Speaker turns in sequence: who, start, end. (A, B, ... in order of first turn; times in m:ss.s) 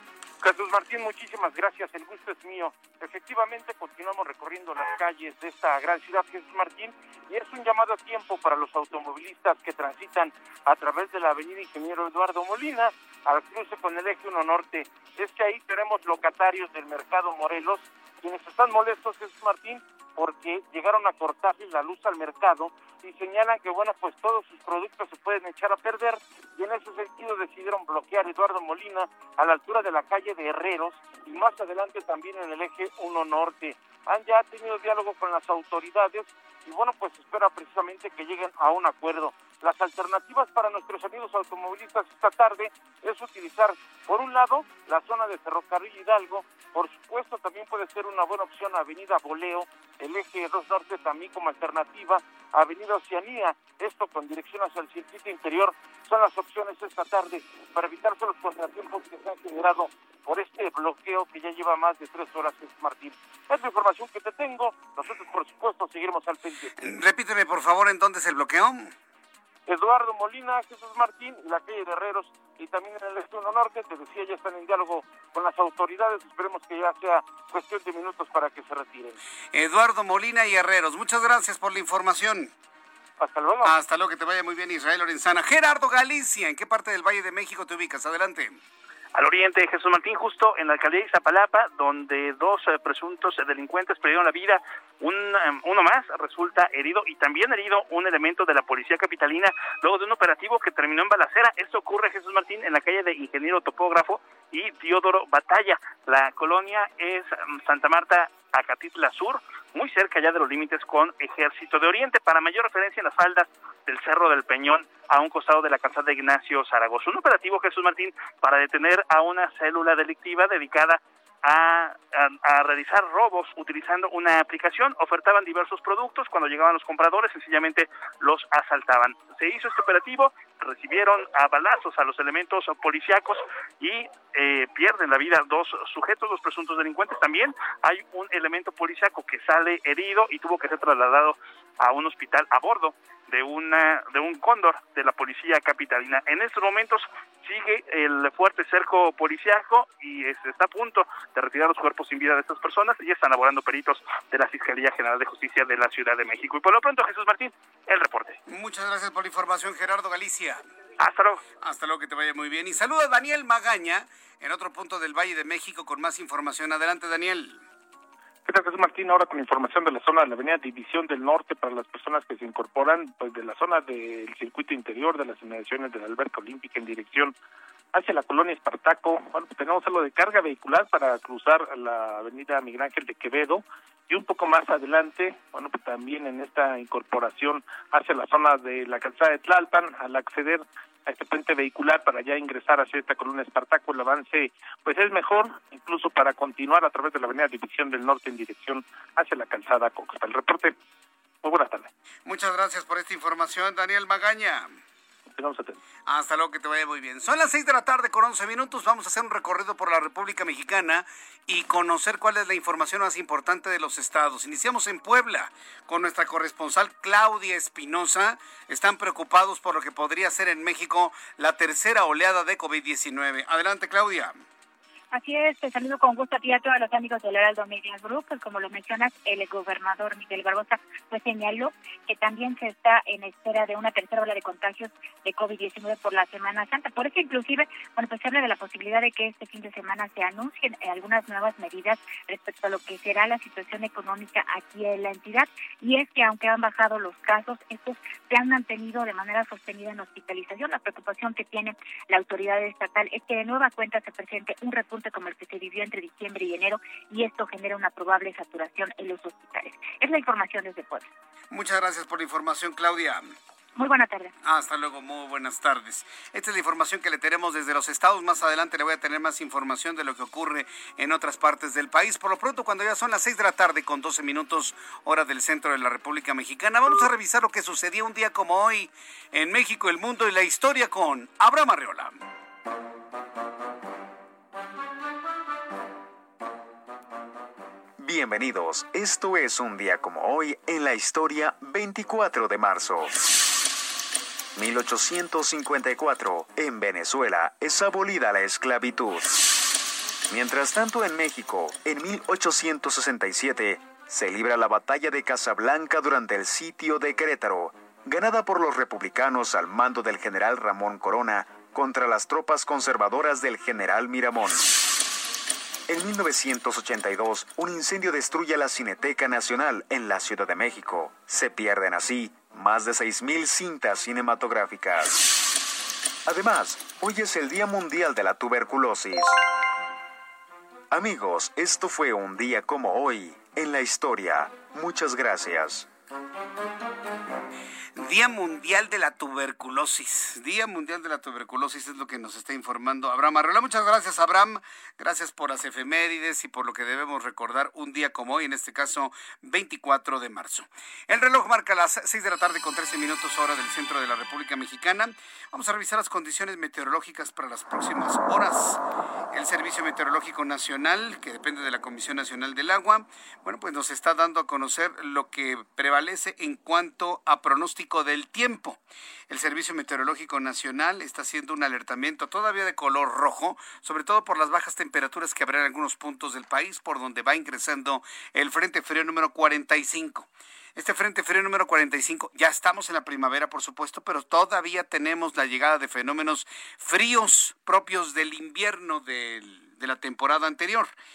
0:00.4-1:06.9 A
1:06.8-1:08.9 B
1:09.7-1:19.2 A
1:19.5-1:22.5 B
1:23.2-1:23.7 A
1:23.6-1:28.6 B
1:29.1-2:38.4 C
2:38.5-2:40.6 B
2:41.0-2:41.4 C
2:41.6-2:47.6 B
2:48.4-2:57.3 D
2:57.9-3:20.7 D
3:21.4-3:21.9 D
3:22.2-3:24.7 B
3:25.3-3:25.8 D
3:26.1-3:44.4 B
3:45.1-4:21.1 E
4:21.5-4:23.3 B
4:23.8-4:24.3 E
4:24.4-4:42.2 B
4:48.0-4:53.2 F
4:54.6-4:59.5 F
5:00.3-5:14.8 F
5:15.9-5:25.3 F
5:26.2-5:29.4 F
5:30.9-5:35.9 F
5:38.0-5:58.8 B
5:59.3-6:30.9 B